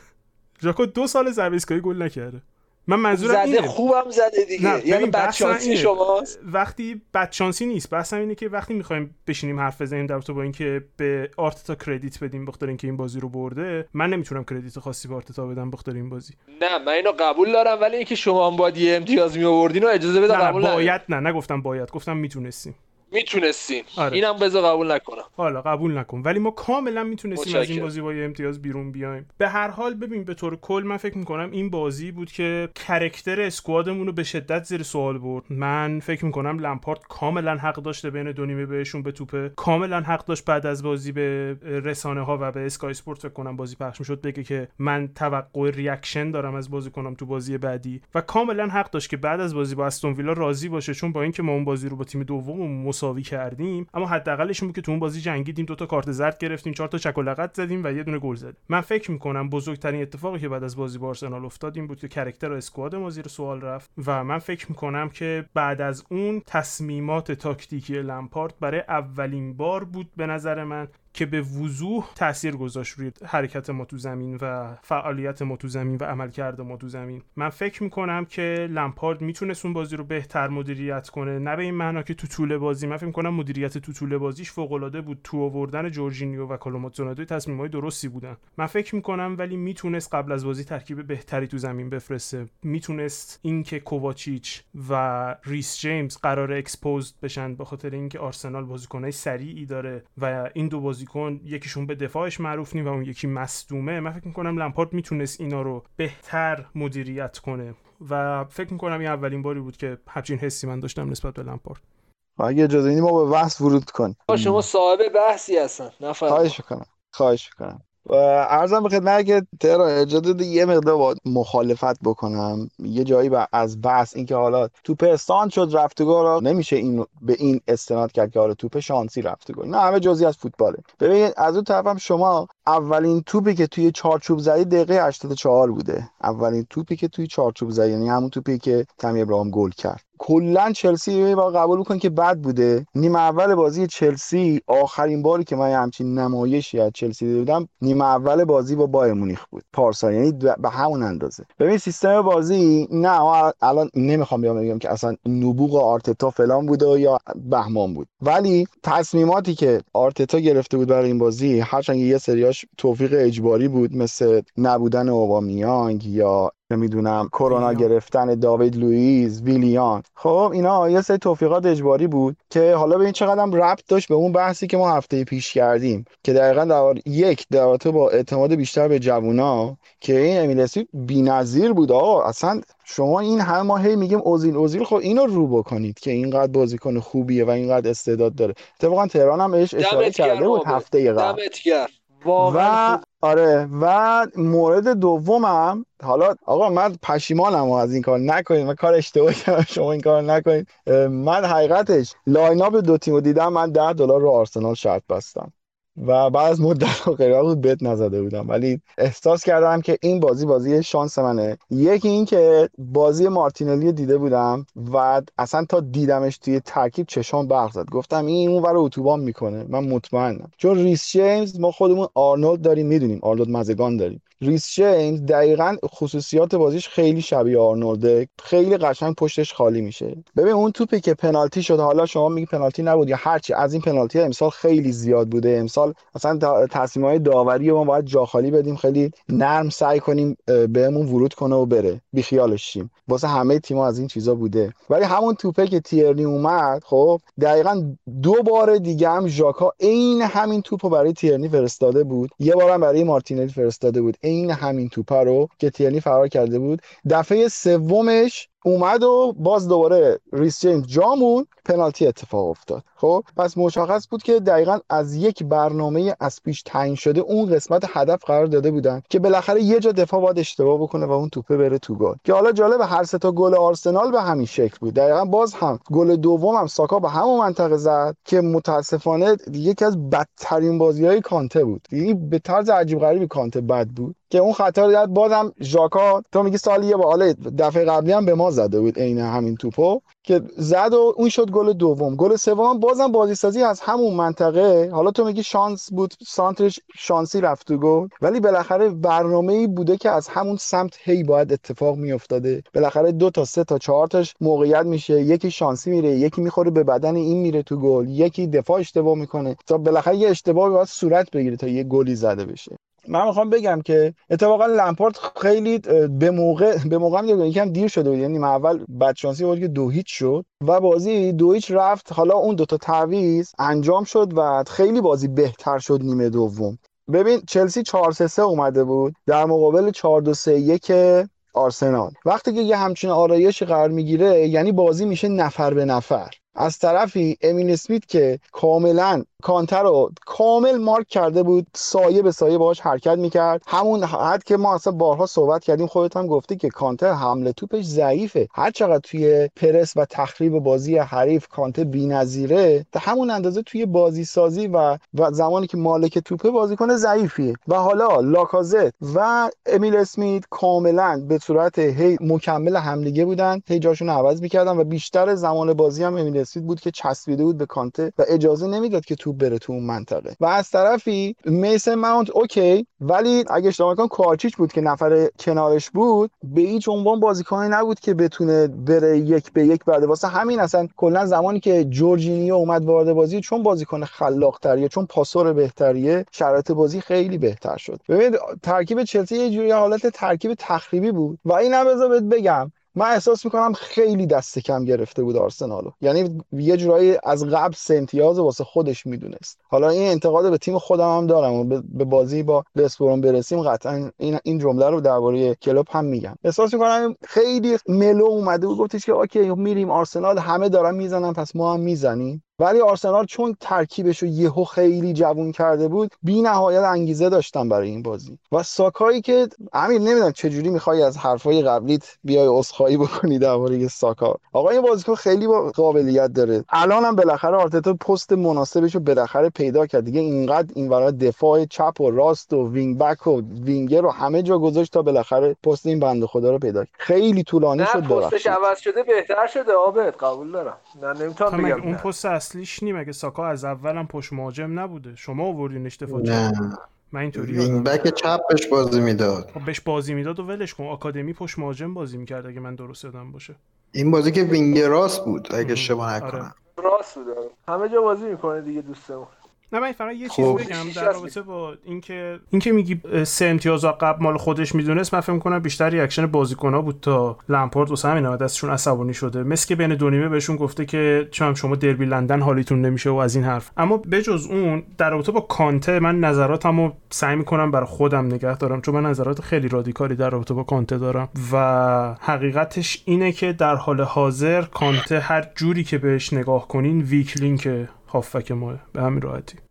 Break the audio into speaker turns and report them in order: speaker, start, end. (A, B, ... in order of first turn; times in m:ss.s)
0:00.6-0:03.8 A
0:03.1-0:06.3 B
0:04.6-0:16.4 A
0:16.6-0:21.0 B
0:20.3-0:22.8 A
0:23.1-0:25.3 B
0:24.0-0:24.2 A
0:25.4-1:51.8 A
0:27.4-0:27.9 B
1:52.4-1:54.6 C
1:54.3-1:56.6 B
1:56.3-3:11.4 C
2:47.5-2:47.9 A
3:09.8-3:13.0 B
3:12.4-7:18.6 C
7:17.8-7:22.1 B
7:21.5-7:26.5 A
7:26.1-7:26.8 D
7:27.1-7:28.1 A
7:27.4-7:29.5 D
7:29.5-7:33.6 A
7:33.9-7:36.5 D
7:35.6-7:36.5 A
7:36.8-7:39.3 B
7:39.7-8:09.6 A
7:40.3-7:40.7 D
7:40.4-7:41.3 B